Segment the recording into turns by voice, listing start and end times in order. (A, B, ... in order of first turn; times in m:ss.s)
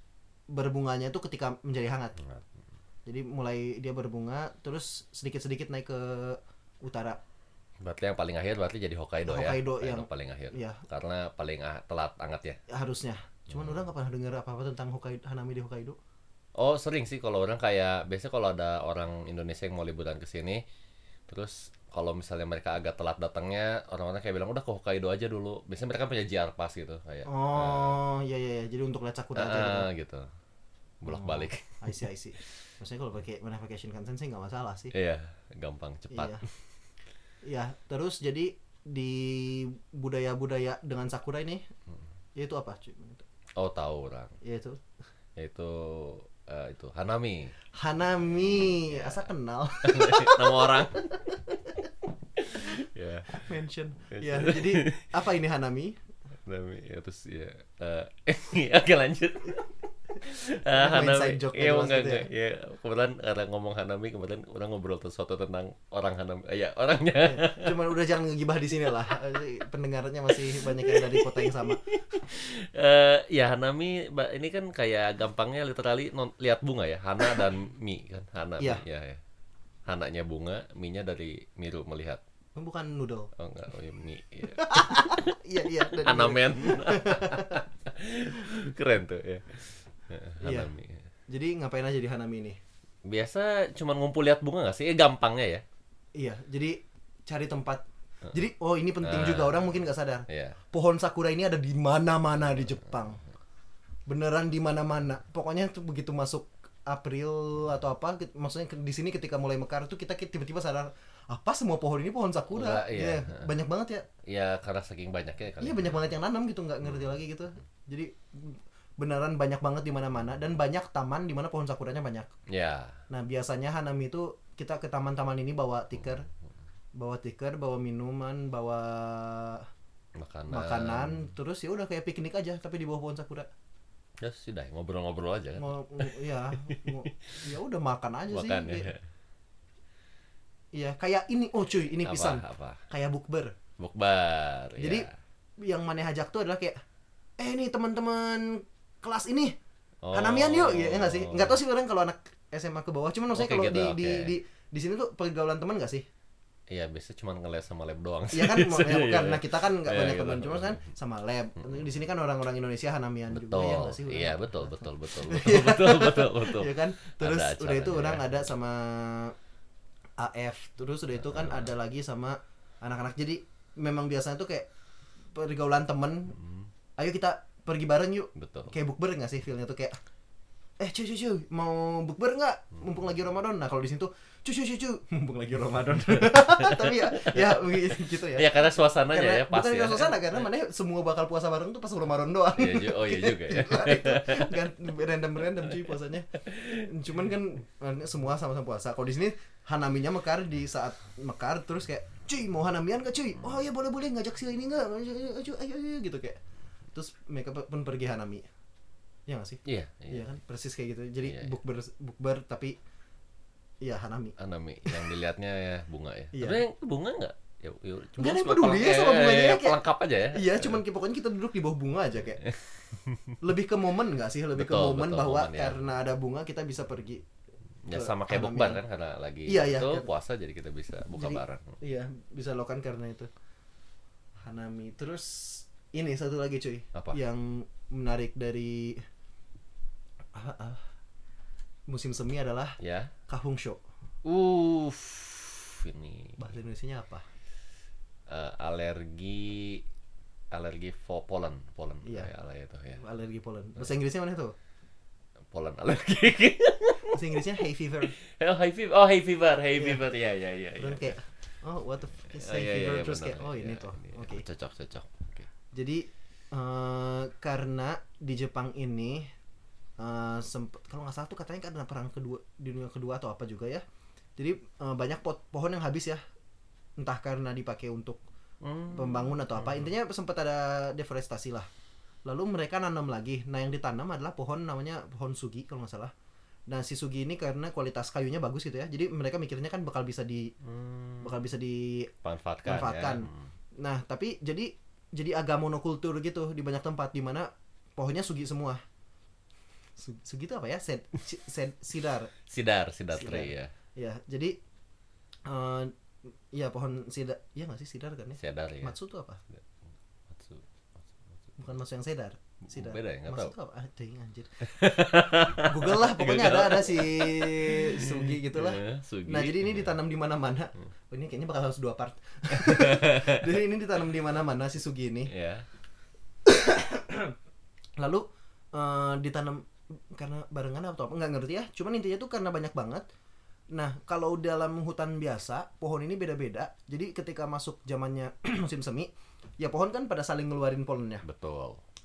0:00.5-0:02.2 A
0:03.1-0:07.2 A
0:07.8-0:12.6 B
0:09.2-0:10.8 A
0:12.7-0:16.0 A
0:16.6-0:20.6 B
0:21.3-0:28.0 B
0:27.2-0:29.9 A
0:29.3-0:30.3 B
0:31.0-0:31.7 B
0:31.1-0:34.9 A
0:34.9-0:36.4 B
0:36.1-0:36.4 A
0:37.4-0:41.6 A
0:42.4-0:43.2 A
0:43.6-0:44.4 B
0:44.4-0:44.8 A
0:45.4-0:47.5 B
0:47.8-0:51.9 A
0:48.6-0:49.2 B
0:49.8-0:51.1 B
0:52.4-0:53.4 B
0:53.3-0:56.0 A
0:54.1-0:55.1 B
0:56.4-0:59.7 B
1:00.2-1:07.7 B
1:00.6-1:02.3 A
1:07.2-1:11.9 A
1:10.3-1:19.2 B
1:19.8-1:22.2 B
1:22.6-1:23.3 A
1:23.4-1:31.0 B
1:24.5-1:27.6 A
1:30.4-1:30.7 A
1:31.3-1:32.6 A
1:33.1-1:35.6 B
1:36.2-1:43.2 A
1:39.0-1:40.6 B
1:44.1-1:54.1 A
1:52.5-1:53.5 B
1:54.2-1:56.0 B
1:55.6-2:02.3 A
2:02.5-2:03.0 B
2:03.1-2:06.3 A
2:06.9-2:09.7 A
2:10.2-2:11.3 B
2:10.5-2:13.5 A
2:14.2-2:17.4 B
2:15.6-2:18.9 A
2:18.3-2:19.0 B
2:20.7-2:23.5 A
2:22.0-2:22.8 B
2:23.8-2:25.1 B
2:24.8-2:25.1 A
2:25.6-2:26.8 A
2:27.4-2:29.6 A
2:30.0-2:31.6 B
2:30.1-2:36.0 A
2:33.3-2:34.3 B
2:36.7-2:40.8 B
2:38.3-2:49.3 A
2:43.3-2:48.3 B
2:50.2-2:54.7 A
2:51.2-2:51.7 B
2:55.3-2:56.4 A
2:57.0-3:00.0 A
2:58.4-2:58.7 B
3:00.8-3:26.4 A
3:06.3-3:10.4 B
3:12.6-3:14.6 B
3:16.4-3:16.9 B
3:26.9-3:28.4 A
3:29.3-3:32.8 A
3:29.6-3:30.3 B
3:31.2-3:31.5 B
3:33.8-3:35.1 A
3:34.4-3:40.8 B
3:36.3-3:36.6 A
3:38.2-3:39.8 A
3:40.3-3:42.4 A
3:42.4-3:43.4 B
3:43.4-3:47.2 A
3:44.6-3:45.8 B
3:47.8-3:51.8 B
3:47.9-3:48.8 A
3:49.4-3:50.1 A
3:51.2-3:53.3 A
3:54.4-3:59.0 A
4:00.3-4:00.8 A
4:01.9-4:03.8 A
4:02.8-4:03.1 B
4:04.2-4:06.4 B
4:06.4-4:07.2 A
4:08.3-4:09.8 B
4:10.5-4:13.0 B
4:12.0-4:12.3 A
4:13.0-4:14.6 A
4:15.5-4:17.4 B
4:17.1-4:18.2 A
4:18.2-4:21.2 B
4:19.7-4:20.0 A
4:20.8-4:24.4 A
4:22.3-4:25.5 B
4:25.7-4:29.3 A
4:30.0-4:33.8 A
4:34.4-4:36.2 A
4:37.0-4:38.2 A
4:38.6-4:39.9 B
4:38.9-4:41.7 A
4:42.2-4:46.1 A
4:46.7-4:50.5 A
4:50.6-4:51.4 B
4:51.2-4:52.1 A
4:52.2-4:53.5 B
4:52.6-4:58.8 A
5:00.0-5:02.3 A
5:02.5-5:03.7 B
5:03.1-5:04.6 A
5:05.4-5:05.9 A
5:06.5-5:09.4 A
5:08.4-5:08.9 B
5:10.3-5:11.1 B
5:11.6-5:25.3 A
5:12.7-5:13.5 B
5:14.6-5:19.9 B
5:22.5-5:23.4 B
5:25.3-5:25.7 B
5:26.4-5:27.3 A
5:28.0-5:33.0 A
5:33.7-5:41.2 A
5:41.2-5:41.8 B